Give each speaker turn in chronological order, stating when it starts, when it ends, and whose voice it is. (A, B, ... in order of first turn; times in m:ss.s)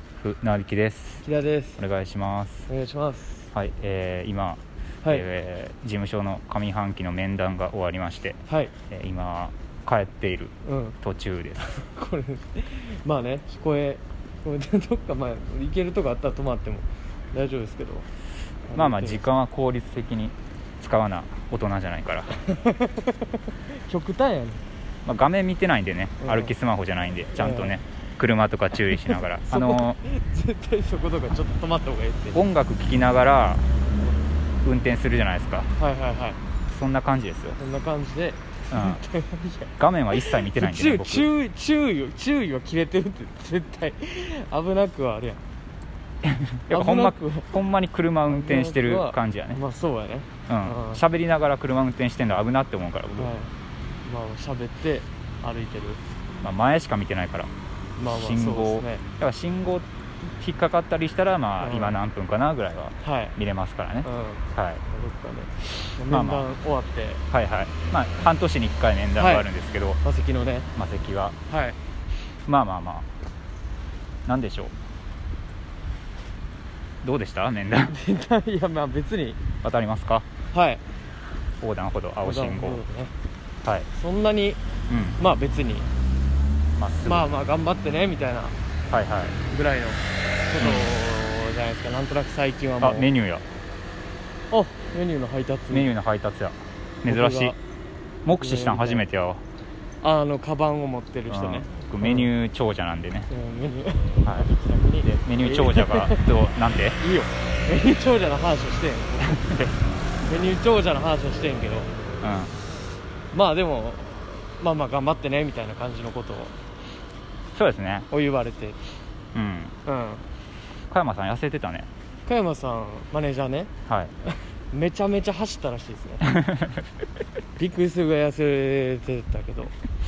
0:00.2-0:01.2 A
0:01.2-0:01.8 B
0:01.8-0:02.7 A
0:02.7-0:03.5 B
0:03.5-0:08.4 A
0:08.5-0:08.7 B
0:08.9-0:11.7 A
0:10.6-0:11.0 B
0:11.6-0:18.1 B
0:18.7-0:19.3 B
0:18.8-0:22.4 A
0:22.3-0:24.6 B
0:25.1-0:30.0 A
0:26.2-0:26.5 B
0:27.4-0:27.8 B
0:29.1-0:32.4 B
0:32.3-0:33.7 A
0:34.0-0:34.2 B
0:34.6-0:35.7 A
0:35.8-0:36.4 B
0:36.7-0:37.6 A
0:37.6-0:45.4 B
0:38.7-0:39.0 A
0:39.8-0:41.3 A
0:46.2-0:49.6 A
0:46.7-0:47.5 B
0:48.3-0:51.0 B
0:50.5-0:53.3 A
0:53.2-0:53.5 B
0:54.0-0:56.0 B
0:56.4-0:57.5 A
0:58.0-0:59.0 B
0:58.1-1:04.8 A
1:01.6-1:02.0 B
1:03.0-1:03.4 B
1:04.0-1:07.2 B
1:06.1-1:06.5 A
1:07.3-1:10.0 A
1:09.2-1:09.5 B
1:10.0-1:10.7 B
1:10.8-1:11.4 A
1:11.5-1:11.8 B
1:12.5-1:13.0 A
1:14.3-1:14.7 A
1:17.0-1:17.9 A
1:17.8-1:19.4 B
1:19.6-1:20.3 A
1:20.5-1:20.8 B
1:21.6-1:22.8 A
1:22.2-1:23.1 B
1:23.9-1:24.6 B
1:24.9-1:25.2 A
1:25.2-1:25.9 B
1:26.8-1:27.3 A
1:27.0-1:28.6 B
1:28.9-1:29.4 A
1:29.5-1:33.1 B
1:30.6-1:30.9 A
1:32.8-1:33.4 A
1:34.5-1:35.9 B
1:35.7-1:37.6 A
1:37.1-1:37.6 B
1:38.2-1:39.4 A
1:38.3-1:39.0 B
1:40.0-1:42.3 B
1:41.3-1:43.3 A
1:43.3-1:46.3 B
1:44.2-1:44.5 A
1:45.0-1:47.0 A
1:47.0-1:49.7 B
1:49.3-1:49.8 A
1:50.2-1:51.9 B
1:52.2-1:52.5 A
1:53.3-1:56.6 B
1:57.6-1:58.1 A
1:58.1-1:58.8 B
1:59.4-1:59.7 A
1:59.9-2:00.2 B
2:00.9-2:01.9 A
2:02.3-2:03.7 B
2:03.9-2:04.1 A
2:04.2-2:06.3 B
2:06.3-2:06.8 A
2:07.6-2:09.7 B